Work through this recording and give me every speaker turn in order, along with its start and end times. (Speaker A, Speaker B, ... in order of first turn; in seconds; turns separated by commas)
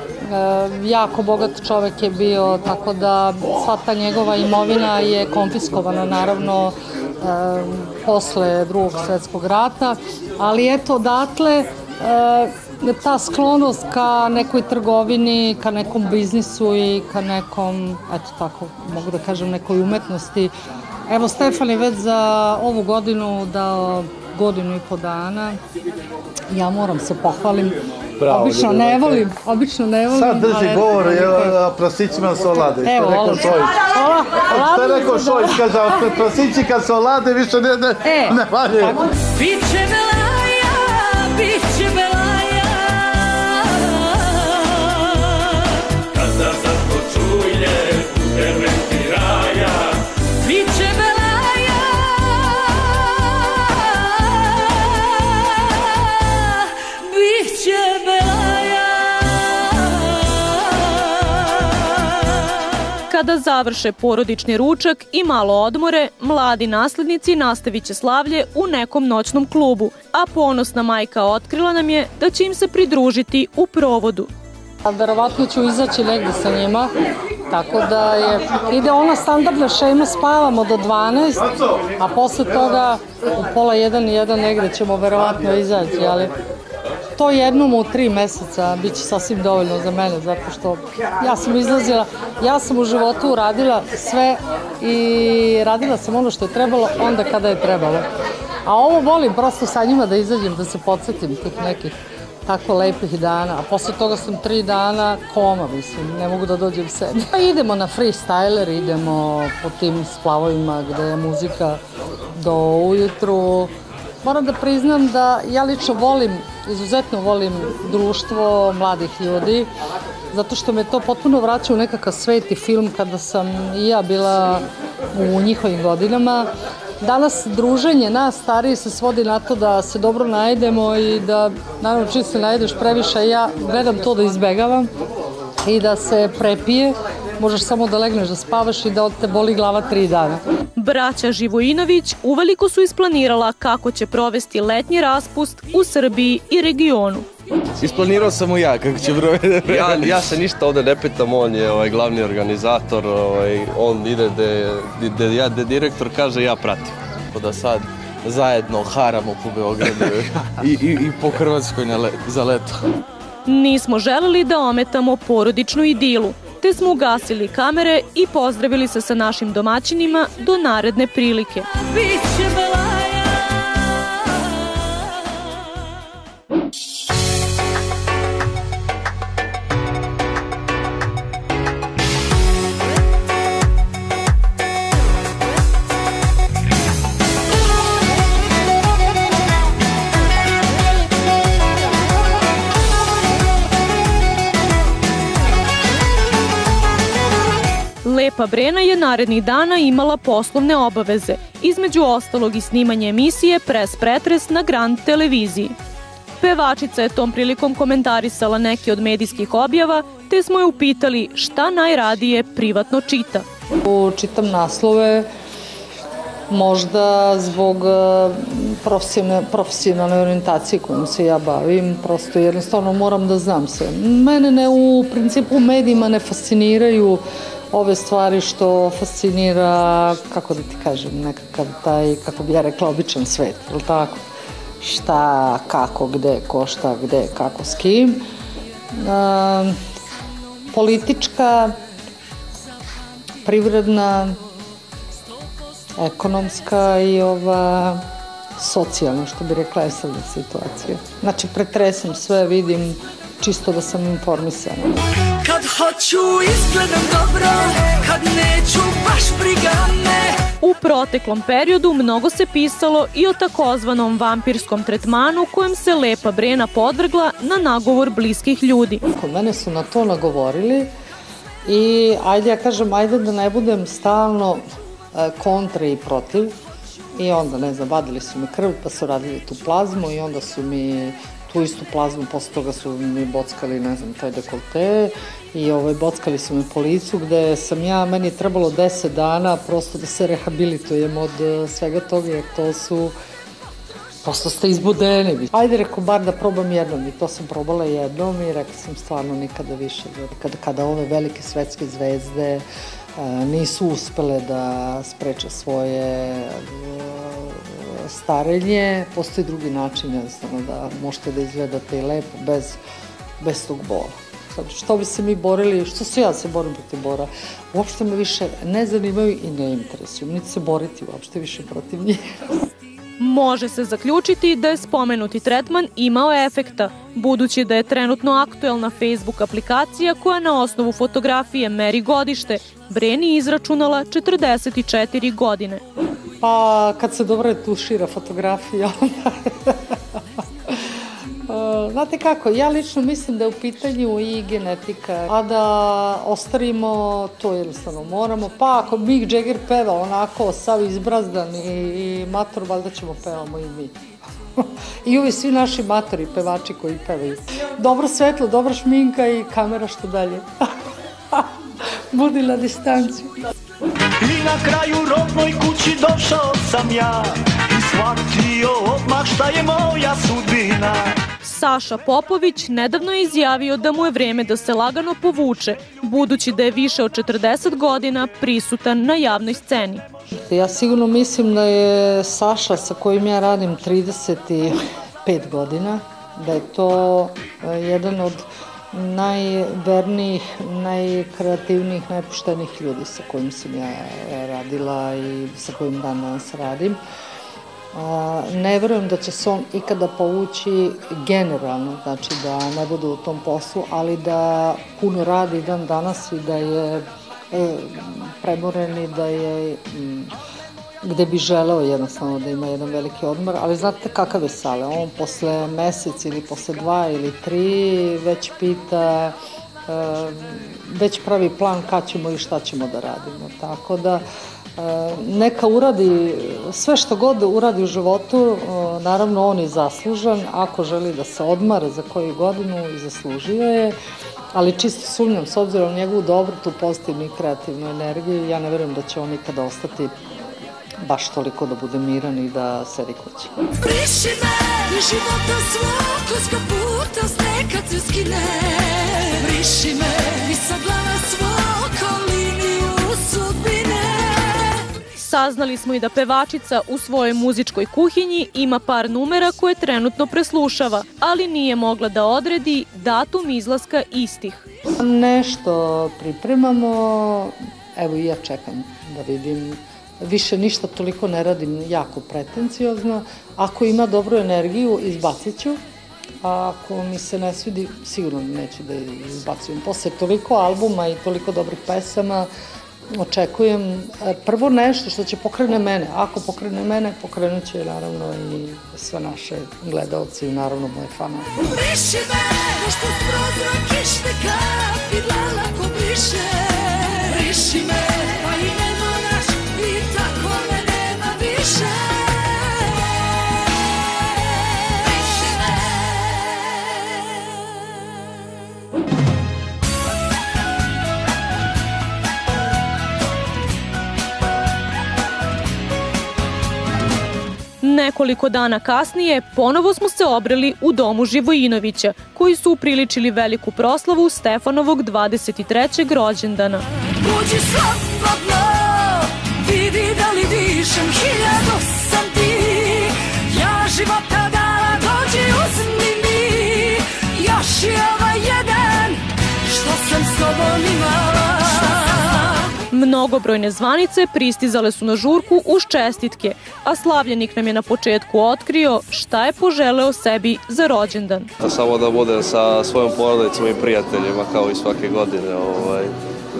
Speaker A: 0.2-20.5, Speaker A: 21.1-25.6, Speaker A: 26.5-31.6, Speaker B: 28.2-29.3, Speaker B: 30.1-33.9, Speaker A: 32.7-36.1, Speaker B: 34.4-39.0, Speaker A: 38.0-39.1, Speaker C: 39.3-45.5, Speaker C: 50.4-61.8, Speaker D: 63.1-74.3, Speaker A: 74.8-76.9, Speaker A: 77.5-86.3, Speaker A: 87.2-98.0, Speaker A: 98.6-101.9, Speaker A: 102.4-111.8, Speaker A: 112.3-113.7, Speaker A: 114.2-119.7, Speaker A: 120.3-126.5, Speaker A: 127.0-134.9, Speaker A: 135.6-140.4, Speaker D: 140.8-147.3, Speaker E: 147.8-150.2, Speaker F: 149.7-156.9, Speaker E: 157.3-162.8, Speaker D: 163.5-171.7, Speaker C: 171.8-174.3, Speaker D: 198.0-205.8, Speaker D: 206.4-213.4, Speaker A: 213.8-215.3, Speaker A: 216.5-234.2, Speaker A: 234.8-238.2, Speaker A: 238.9-239.8, Speaker A: 240.7-241.8, Speaker A: 243.4-244.4, Speaker A: 246.0-248.0, Speaker A: 248.6-254.9, Speaker C: 255.4-260.4, Speaker D: 260.6-269.0, Speaker A: 269.1-270.9, Speaker A: 271.6-274.6, Speaker A: 275.1-276.5, Speaker A: 277.1-293.1, Speaker A: 294.2-302.6, Speaker A: 303.2-312.8, Speaker A: 313.4-322.6, Speaker D: 323.2-335.8, Speaker A: 336.4-339.9, Speaker A: 341.5-353.9, Speaker A: 354.6-360.4, Speaker A: 362.1-363.3, Speaker G: 364.2-371.1, Speaker D: 371.4-380.0, Speaker A: 380.5-397.0, Speaker A: 397.9-410.3, Speaker A: 411.0-419.3, Speaker A: 419.9-424.2, Speaker A: 424.8-433.9, Speaker A: 434.5-440.1, Speaker A: 441.0-443.5, Speaker C: 443.8-454.8, Speaker D: 455.2-464.7, Speaker A: 465.0-475.8, Speaker A: 476.4-482.5, Speaker A: 483.1-491.5, Speaker C: 491.7-503.2, Speaker C: 504.4-507.4, Speaker D: 517.8-526.8, Speaker C: 527.2-542.6, Speaker D: 542.9-551.5, Speaker F: 551.6-556.1